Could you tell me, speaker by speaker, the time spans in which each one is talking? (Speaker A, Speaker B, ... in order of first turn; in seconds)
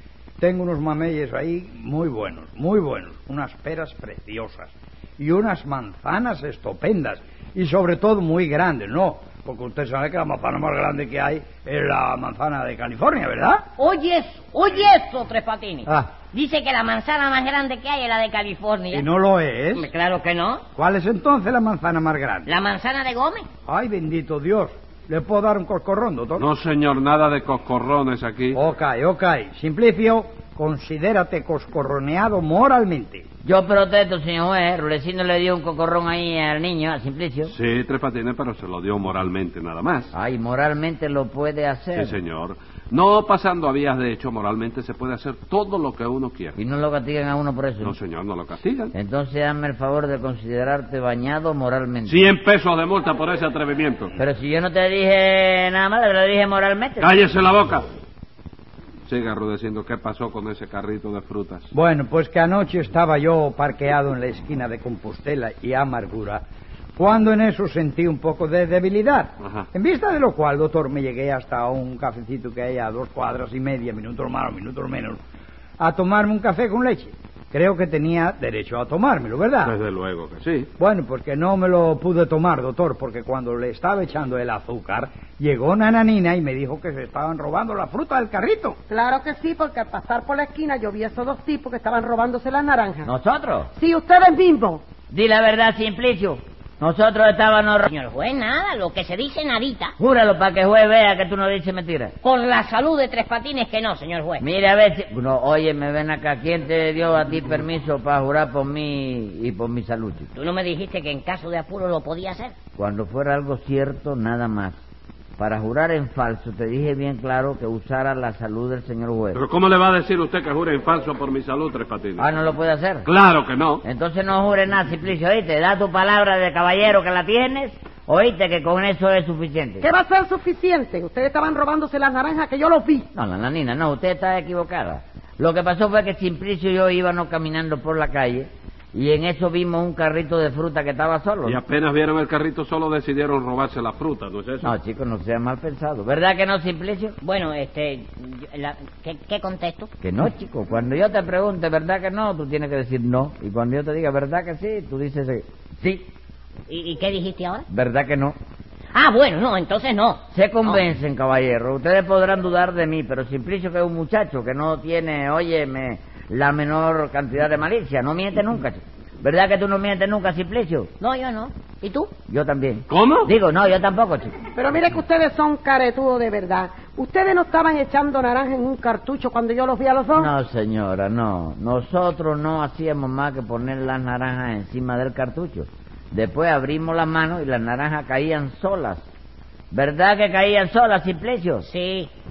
Speaker A: 0.4-13.6, 15.9-16.1, 18.9-19.9, 20.8-22.5, 23.7-26.5, 28.5-33.2, 61.7-66.4, 67.0-75.2, 75.8-79.8, 80.8-88.8
Speaker B: 13.8-19.1, 19.7-20.6, 22.4-23.5, 97.9-99.9, 102.2-104.4, 110.3-112.5, 147.2-149.9, 156.7-157.7, 158.9-160.8, 171.0-172.1, 191.6-192.1
Speaker C: 26.4-28.6, 37.5-40.1, 42.0-46.6, 47.8-48.9, 52.0-54.1, 57.0-57.9, 59.1-61.7, 79.6-80.7, 119.3-122.3, 123.0-123.8, 141.4-144.7, 172.9-173.3
Speaker D: 33.4-37.5, 40.1-42.2, 46.6-48.0, 48.9-52.3, 54.2-57.1, 93.0-93.7, 95.1-97.9, 100.0-102.1, 104.4-110.3, 112.8-114.8, 115.4-119.4, 122.2-123.1, 123.8-129.9, 133.1-141.6, 144.6-147.2, 150.0-156.0, 157.7-158.4, 160.3-170.9, 172.3-174.4, 180.2-189.1, 189.7-191.7
Speaker E: 88.9-93.0, 93.8-94.8, 129.9-133.1, 174.6-180.2